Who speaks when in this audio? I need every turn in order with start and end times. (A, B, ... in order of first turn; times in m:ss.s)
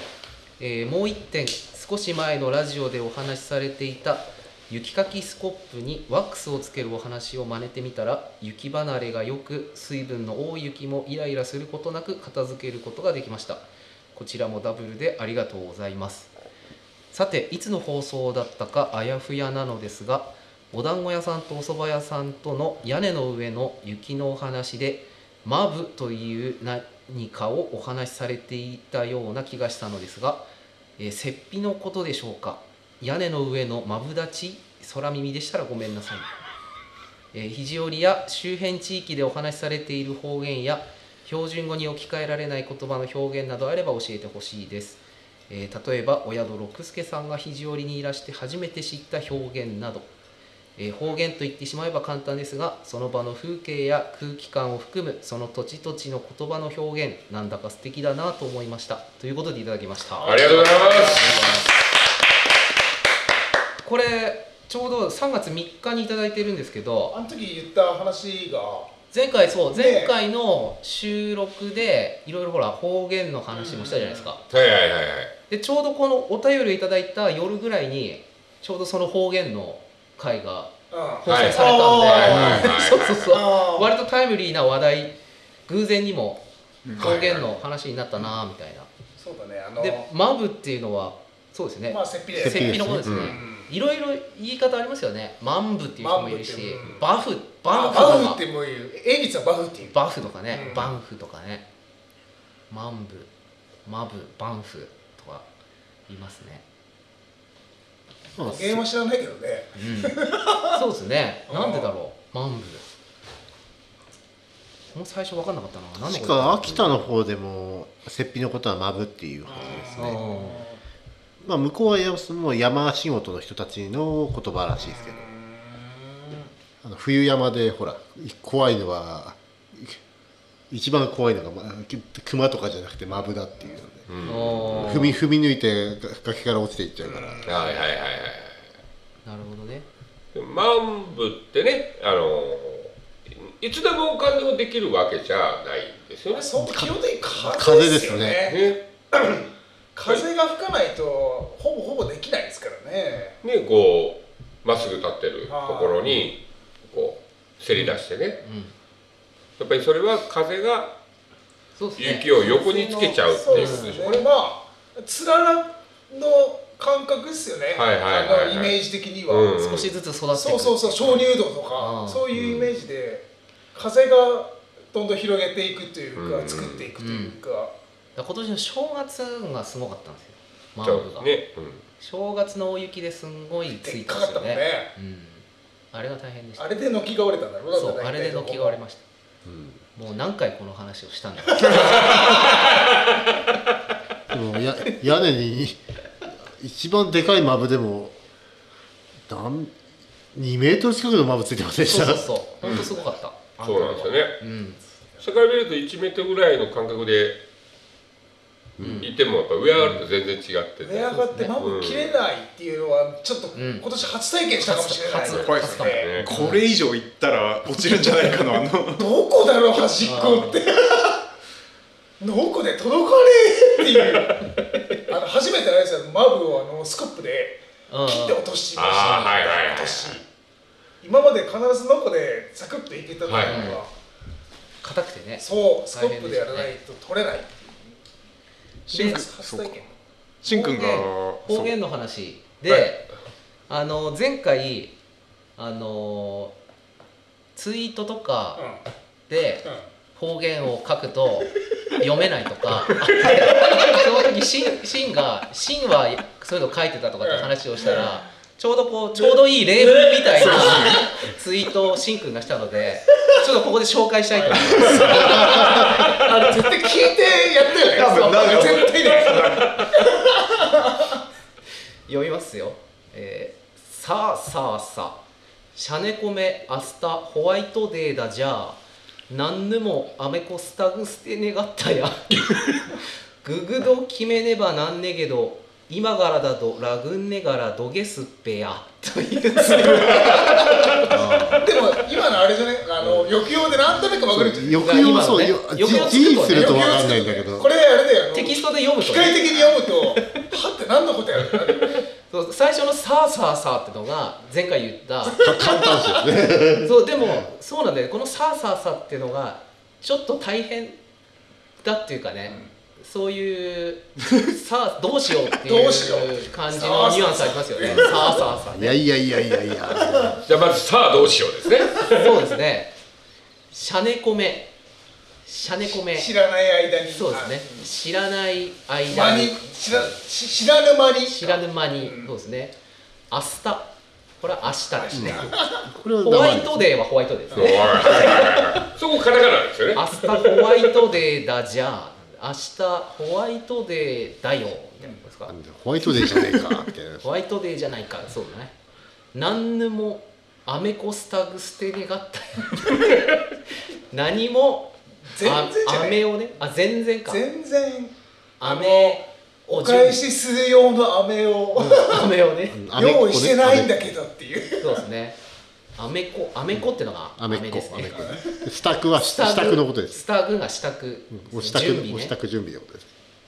0:00.6-0:16.3 A
0:17.1-0:30.4 A
0:31.0-0:36.3 A
0:37.3-0:50.1 A
0:50.8-1:01.7 A
1:00.2-1:01.6 B
1:00.2-1:01.4 C
1:03.8-1:07.2 A
1:07.1-1:08.9 B
1:09.1-1:14.4 A
1:09.7-1:10.1 B
1:13.5-1:14.3 B
1:14.5-1:15.3 C
1:15.5-1:25.1 A
1:20.9-1:23.9 B
1:21.2-1:23.4 C
1:25.7-1:26.4 A
1:26.8-1:27.2 D
1:27.0-1:28.9 A
1:27.0-1:27.4 C
1:29.2-1:30.1 B
1:29.8-1:38.4 A
1:31.9-1:33.7 B
1:32.3-1:33.3 E
1:33.1-1:33.4 C
1:36.0-1:37.0 B
1:37.7-1:40.0 B
1:39.9-1:41.6 A
1:40.5-1:40.9 B
1:42.7-1:43.3 A
1:43.8-1:45.4 A
1:46.1-1:46.6 A
1:48.4-1:48.8 E
1:48.4-1:50.8 B
1:49.8-1:52.8 A
1:51.5-1:51.9 B
1:54.9-1:56.8 A
1:56.0-2:00.4 E
1:59.5-2:00.8 B
2:00.0-2:00.6 A
2:01.4-2:05.3 E
2:04.8-2:06.5 B
2:06.8-2:10.0 E
2:10.7-2:14.1 E
2:14.1-2:15.0 C
2:14.2-2:15.2 A
2:14.6-2:17.5 E
2:17.0-2:17.8 B
2:17.4-2:18.6 C
2:19.2-2:19.8 A
2:20.3-2:26.5 C
2:26.3-2:33.4 B
2:26.6-2:28.5 E
2:28.4-2:28.8 C
2:33.4-2:38.4 C
2:35.5-2:36.2 B
2:37.7-2:38.7 A
2:39.6-2:40.9 C
2:41.8-2:44.2 A
2:42.0-2:44.2 C
2:43.2-2:49.6 B
2:47.7-2:49.9 C
2:49.6-2:52.6 A
2:50.3-2:57.7 B
2:56.2-2:56.9 C
2:57.0-2:57.4 A
2:58.2-3:01.3 A
3:00.8-3:01.8 C
3:02.0-3:06.7 A
3:03.8-3:04.9 B
3:06.6-3:08.8 B
3:07.7-3:09.0 A
3:09.4-3:09.8 E
3:10.0-3:12.2 A
3:11.6-3:12.2 B
3:14.3-3:15.8 E
3:16.5-3:18.2 E
3:19.3-3:19.7 E
3:20.3-3:22.2 E
3:21.8-3:24.8 A
3:23.6-3:24.4 C
3:25.2-3:27.4 C
3:28.8-3:29.1 E
3:28.8-3:29.1 A
3:29.0-3:32.2 C
3:30.8-3:36.2 B
3:31.1-3:31.5 A
3:33.5-3:33.9 A
3:34.6-3:36.6 A
3:35.2-3:36.3 C
3:35.4-3:39.0 D
3:39.0-3:41.2 B
3:40.0-3:40.6 A
3:42.2-3:44.5 B
3:45.1-3:50.2 B
3:47.9-3:48.4 A
3:48.7-3:50.2 C
3:51.0-3:53.9 B
3:53.3-3:53.8 C
3:53.4-3:53.8 A
3:54.8-3:56.7 A
3:55.4-3:57.9 B
3:58.9-3:59.8 D
3:58.9-3:59.2 A
3:58.9-3:59.9 B
4:00.4-4:01.7 D
4:00.5-4:03.1 A
4:03.7-4:04.9 A
4:05.6-4:06.5 A
4:07.6-4:08.6 A
4:08.6-4:08.8 B
4:09.3-4:26.7 A
4:17.2-4:18.1 B
4:20.0-4:20.9 B
4:20.3-4:21.1 D
4:24.4-4:31.2 B
4:27.9-4:29.8 D
4:28.0-4:28.9 A
4:32.1-4:35.2 A
4:35.7-4:51.7 A
4:49.6-4:54.8 B
4:53.0-4:53.3 A
4:54.2-4:57.7 E
4:54.8-4:57.0 A
4:56.4-5:02.0 B
4:58.3-5:00.4 A
5:02.3-5:05.4 A
5:05.2-5:06.2 B
5:05.4-5:07.4 E
5:06.8-5:11.0 A
5:11.8-5:19.0 A
5:15.6-5:18.4 B
5:18.7-5:20.4 E
5:20.0-5:20.4 B
5:20.4-5:22.4 C
5:22.0-5:22.9 A
5:23.7-5:24.7 A
5:25.4-5:26.3 A
5:26.1-5:27.9 B
5:27.1-5:30.1 A
5:29.1-5:32.3 B
5:31.2-5:32.7 A
5:33.3-5:35.5 A
5:34.9-5:35.9 B
5:35.1-5:36.9 E
5:36.2-5:38.8 A
5:37.5-5:38.5 B
5:37.5-5:40.5 C
5:39.9-5:45.6 A
5:45.5-5:47.3 E
5:47.2-5:48.7 A
5:49.3-5:53.3 A
5:54.1-5:57.4 A
5:55.2-5:56.2 B
5:57.3-6:02.3 B
5:58.6-6:00.2 A
6:01.8-6:02.8 A
6:02.7-6:04.0 E
6:02.9-6:05.0 B
6:04.8-6:05.4 A
6:06.0-6:08.4 A
6:07.4-6:10.2 E
6:08.1-6:08.5 B
6:09.1-6:12.3 A
6:11.3-6:13.1 E